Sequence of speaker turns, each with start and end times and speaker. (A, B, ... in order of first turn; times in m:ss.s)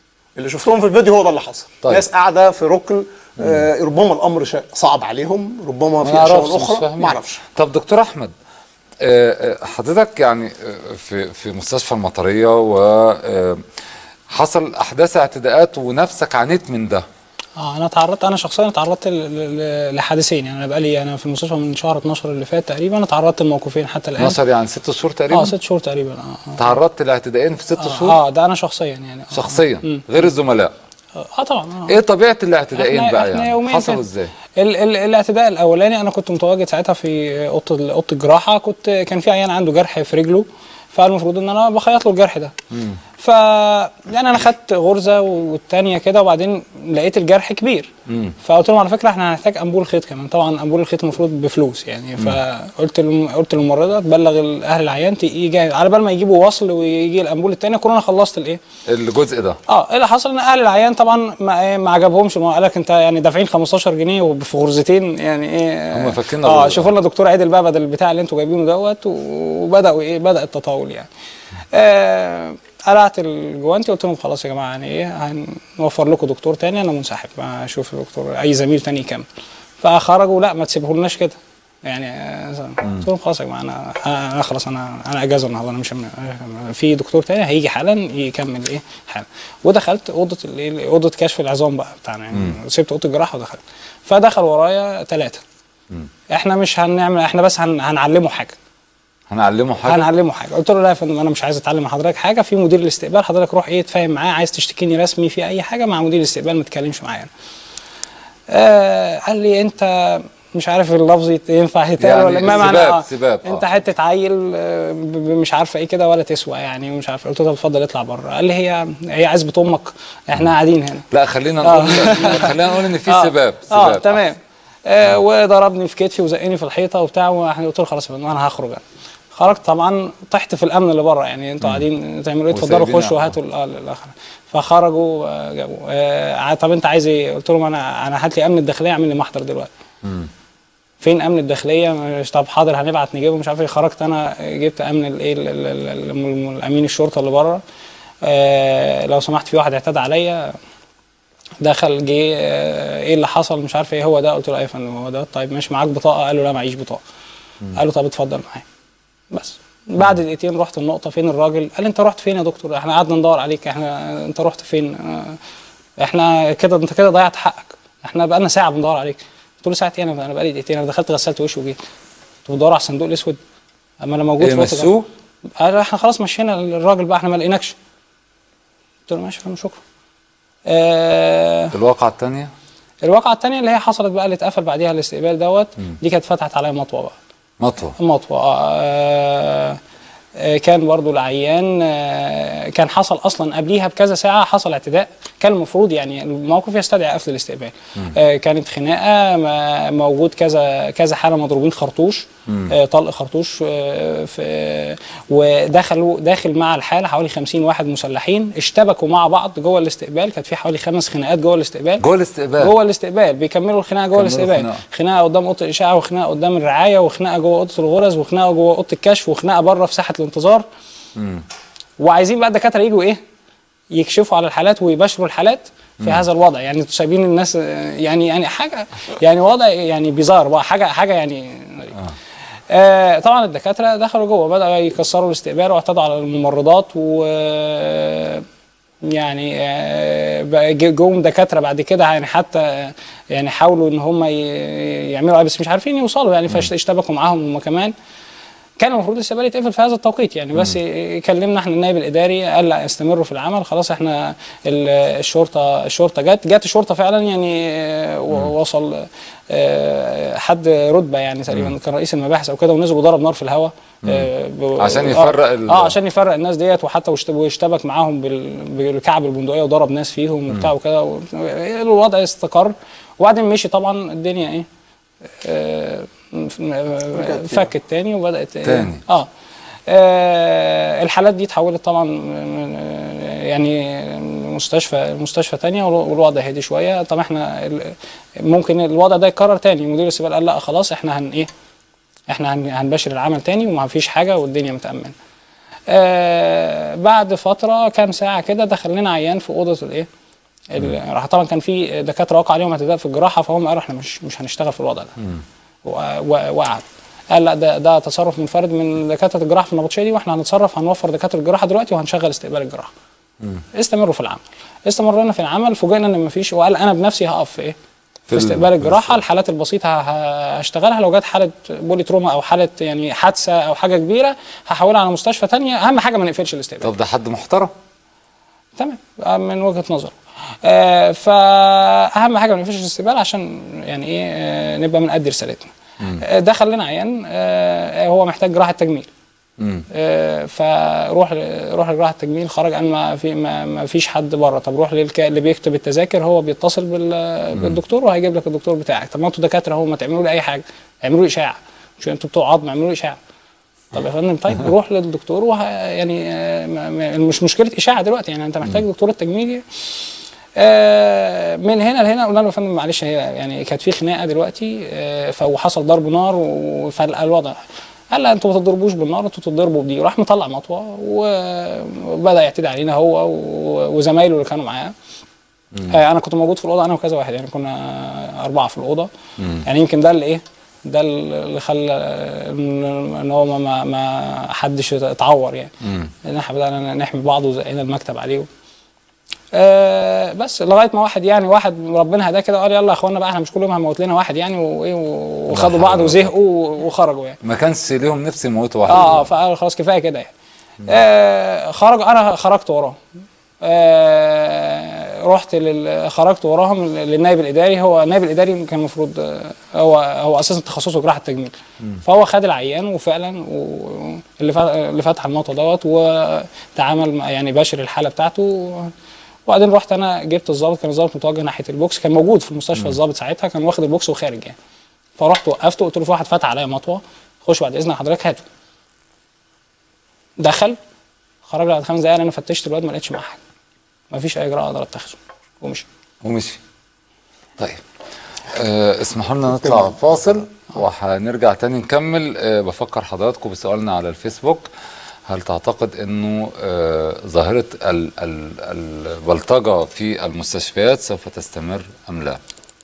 0:00.4-0:07.4 A
0:06.0-0:08.3 B
0:09.0-0:13.6 B
0:14.3-0:17.0 B
0:17.6-0:24.4 C
0:24.2-0:25.6 B
0:25.3-0:26.8 C
0:26.6-0:28.2 B
0:27.8-0:30.0 C
0:29.3-0:30.7 B
0:31.2-0:32.0 C
0:31.9-0:34.3 B
0:32.8-0:34.0 C
0:34.6-0:42.5 C
0:42.7-0:43.0 B
0:43.2-0:47.9 C
0:48.1-0:48.4 B
0:48.4-0:58.6 C
0:58.9-0:59.6 B
0:59.7-1:11.1 C
1:05.9-1:06.9 B
1:11.7-1:19.3 C
1:19.8-1:35.4 C
1:32.3-1:32.6 B
1:36.3-1:38.6 C
1:39.3-1:40.1 B
1:39.8-1:47.3 C
1:48.5-2:01.0 C
1:52.0-1:53.6 B
2:01.1-2:04.2 B
2:01.6-2:19.7 C
2:12.5-2:13.4 B
2:20.0-2:20.3 B
2:21.0-2:27.6 C
2:28.2-2:30.5 C
2:31.6-2:37.0 C
2:37.7-2:38.6 C
2:39.3-2:45.4 C
2:46.0-2:51.8 C
2:52.5-2:53.4 C
2:54.0-2:54.9 C
2:54.4-2:55.1 B
2:55.6-2:57.8 C
2:59.1-2:59.8 C
3:00.7-3:01.7 C
3:01.7-3:02.5 B
3:03.0-3:07.2 C
3:07.6-3:08.0 B
3:08.0-3:09.8 C
3:10.4-3:32.0 C
3:22.5-3:22.7 B
3:32.0-3:32.8 B
3:32.6-3:40.6 C
3:34.1-3:34.8 B
3:41.2-3:41.4 B
3:42.0-3:43.2 C
3:43.9-3:52.0 C
3:52.7-3:58.4 C
3:59.0-4:07.9 C
4:08.8-4:34.7 C
4:24.0-4:26.0 B
4:35.4-4:39.3 C
4:37.2-4:37.7 A
4:38.6-4:39.0 B
4:39.9-4:51.5 C
4:52.3-4:55.2 C
4:55.9-5:00.1 C
5:00.7-5:05.1 C
5:05.8-5:12.9 C
5:13.8-5:17.8 C
5:18.3-5:19.2 B
5:18.3-5:26.9 C
5:26.8-5:27.7 B
5:28.8-5:39.1 C
5:39.6-5:39.9 B
5:39.9-5:53.2 C
5:53.9-5:59.6 C
6:00.6-6:07.6 C
6:08.1-6:14.9 C
6:15.9-6:19.1 C
6:19.4-6:19.6 B
6:19.6-6:25.7 C
6:25.8-6:26.1 B
6:26.2-6:28.5 C
6:29.5-6:37.4 C
6:35.5-6:36.3 B
6:37.4-6:39.3 B
6:38.9-6:40.3 C
6:40.8-6:43.0 C
6:43.6-6:58.9 C
6:59.5-7:04.6 C
7:05.2-7:08.4 C
7:10.4-7:10.8 C
7:11.5-7:13.4 C
7:14.1-7:15.9 C
7:16.2-7:16.6 B
7:18.5-7:24.6 B
7:25.3-7:32.4 B